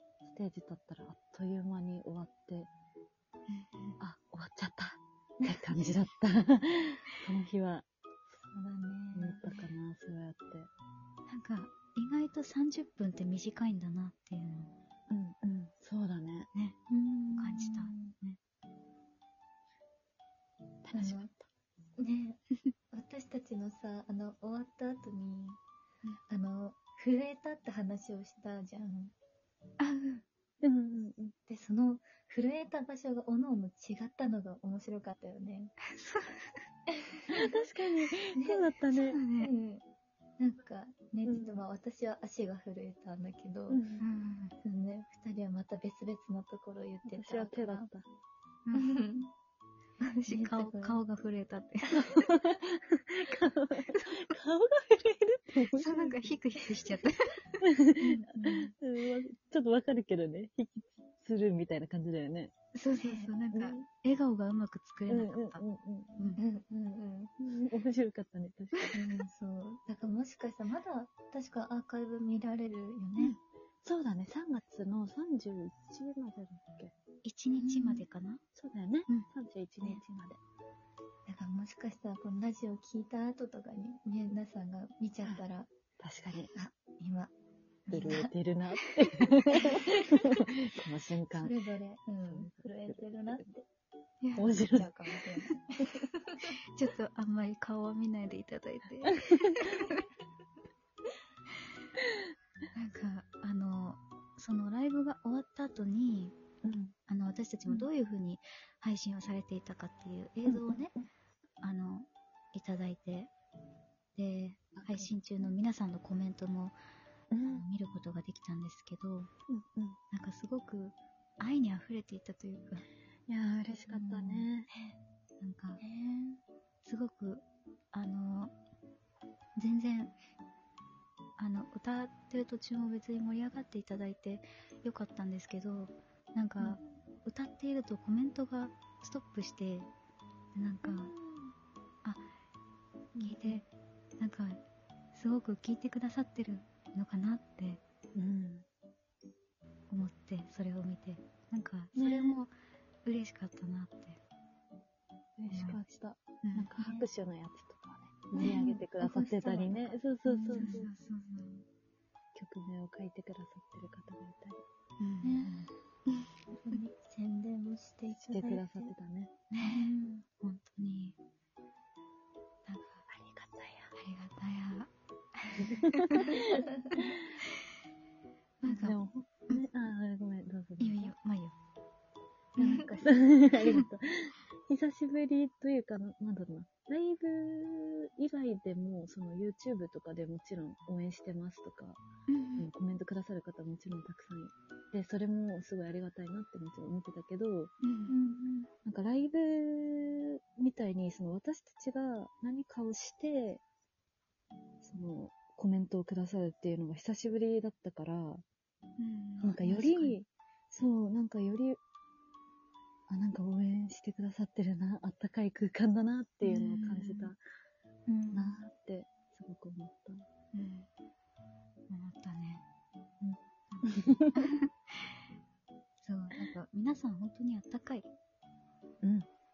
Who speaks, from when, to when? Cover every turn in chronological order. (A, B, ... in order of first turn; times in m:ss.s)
0:00.2-0:02.7 A
0:03.5-0:04.0 B
0:04.0-0:07.8 A
0:08.4-0:09.4 C
0:09.1-0:10.7 A
0:11.3-0:14.7 B
0:15.1-0:16.5 A
0:16.9-0:18.1 C
0:17.3-0:18.4 B
0:20.8-0:21.4 A
0:20.9-0:21.3 C
0:22.0-0:25.6 C
0:26.3-0:29.1 C
0:29.8-0:30.2 B
0:30.6-0:31.3 A
0:31.5-0:35.7 C
0:35.9-0:36.6 B
0:37.3-0:37.6 C
0:37.3-0:39.2 A
0:38.4-0:38.7 C
0:38.9-0:39.5 B
0:39.2-0:39.8 C
0:40.4-0:43.8 C
0:41.2-0:41.6 A
0:43.7-0:44.0 A
0:44.0-0:44.5 B
0:44.6-0:47.9 C
0:47.0-0:48.0 A
0:48.7-0:49.3 C
0:50.0-0:52.3 B
0:50.3-0:51.0 C
0:51.9-0:56.2 A
0:53.9-0:54.4 B
0:55.6-0:57.4 B
0:57.6-1:02.5 A
0:58.0-0:58.7 C
1:02.7-1:05.6 B
1:02.9-1:03.3 C
1:03.5-1:03.8 A
1:05.1-1:06.4 A
1:06.4-1:07.3 C
1:07.4-1:09.0 A
1:08.9-1:13.4 C
1:13.2-1:16.9 A
1:17.2-1:18.4 B
1:17.6-1:18.0 C
1:18.5-1:20.4 A
1:21.3-1:25.7 C
1:26.0-1:26.5 A
1:26.5-1:27.3 C
1:27.9-1:29.0 C
1:27.9-1:31.6 A
1:29.6-1:30.0 C
1:31.3-1:33.6 C
1:32.2-1:33.4 A
1:34.2-1:34.8 B
1:34.4-1:34.9 A
1:34.4-1:36.5 C
1:36.4-1:40.0 B
1:42.7-1:46.4 B
1:46.6-1:46.9 A
1:47.1-1:50.9 B
1:50.4-1:51.1 A
1:51.6-1:53.3 B
1:54.1-1:56.7 B
1:54.7-1:55.1 A
1:57.3-1:57.6 A
1:57.4-1:59.3 B
1:59.5-2:00.0 A
2:00.1-2:02.8 B
2:03.3-2:04.7 A
2:03.9-2:05.0 C
2:05.4-2:05.8 B
2:05.8-2:06.4 C
2:06.8-2:08.5 B
2:09.6-2:10.2 B
2:11.4-2:19.9 B
2:16.6-2:16.9 A
2:20.5-2:21.1 B
2:20.8-2:21.5 A
2:23.1-2:23.6 A
2:23.2-2:23.7 B
2:24.2-2:24.6 B
2:25.1-2:27.8 B
2:28.1-2:28.6 A
2:29.9-2:32.5 B
2:31.9-2:32.4 A
2:33.0-2:34.2 B
2:35.4-2:40.9 A
2:35.5-2:35.8 B
2:36.4-2:36.8 B
2:36.8-2:37.0 C
2:38.3-2:38.8 B
2:38.4-2:40.8 C
2:40.5-2:41.6 B
2:42.3-2:44.6 A
2:45.0-2:46.8 B
2:45.2-2:45.7 C
2:46.5-2:48.9 C
2:48.2-2:49.4 A
2:49.5-2:51.2 B
2:49.6-2:50.2 C
2:52.6-2:53.0 B
2:53.1-2:53.9 A
2:53.9-2:56.3 B
2:55.6-2:57.2 A
2:58.6-2:59.0 B
2:58.6-3:01.1 A
3:00.8-3:01.6 B
3:02.6-3:02.9 B
3:02.6-3:12.0 A
3:03.6-3:03.8 B
3:12.3-3:12.7 B
3:12.6-3:17.7 A
3:17.8-3:18.2 B
3:18.1-3:18.7 C
3:18.8-3:23.6 A
3:24.8-3:28.4 A
3:29.0-3:30.2 B
3:29.4-3:31.8 A
3:33.1-3:37.4 A
3:36.4-3:37.3 B
3:38.1-3:38.6 C
3:38.3-3:40.2 A
3:40.5-3:40.9 B
3:41.9-3:42.6 B
3:43.2-3:44.2 A
3:43.7-3:45.2 B
3:46.0-3:48.1 B
3:49.0-3:49.3 A